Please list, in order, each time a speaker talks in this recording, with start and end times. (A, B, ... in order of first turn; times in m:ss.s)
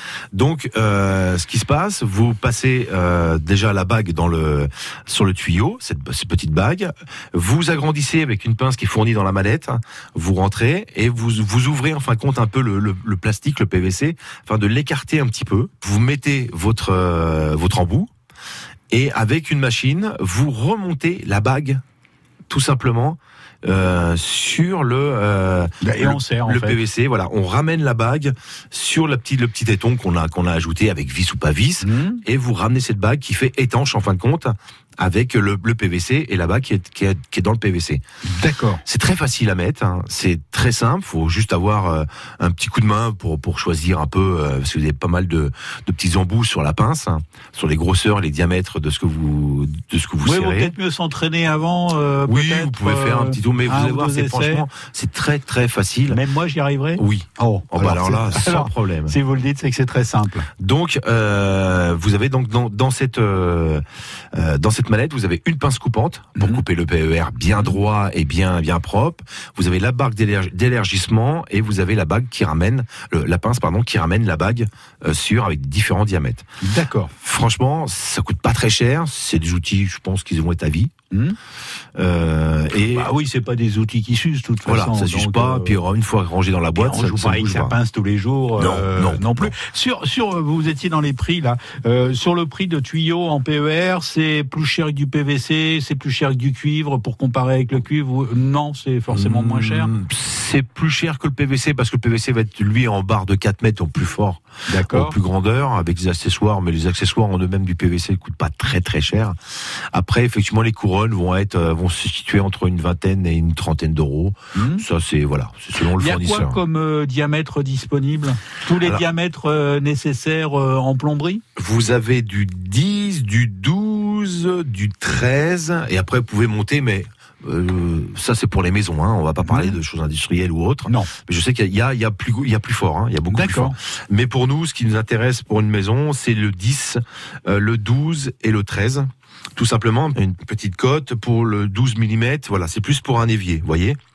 0:00.3-0:18.1 A
0:18.9-0:21.8 A
0:22.5-0:38.0 A
0:25.8-0:26.8 B
0:31.8-0:32.2 B
0:38.2-0:38.8 B
0:38.8-0:50.7 A
0:50.2-0:54.6 B
0:52.3-0:56.2 A
0:56.1-1:00.5 B
0:57.0-0:59.2 A
1:00.6-1:16.5 A
1:06.4-1:06.6 B
1:16.6-1:17.1 B
1:17.2-1:20.9 A
1:21.1-1:21.4 B
1:22.0-1:23.1 A
1:22.9-1:25.8 B
1:24.7-1:27.8 A
1:26.8-1:39.9 B
1:28.6-1:29.6 A
1:39.1-1:49.4 A
1:44.7-1:45.2 B
1:49.9-1:56.6 A
1:54.6-1:54.8 B
1:56.0-2:01.4 B
2:01.6-2:24.0 A
2:09.4-2:09.8 B
2:13.3-2:13.8 B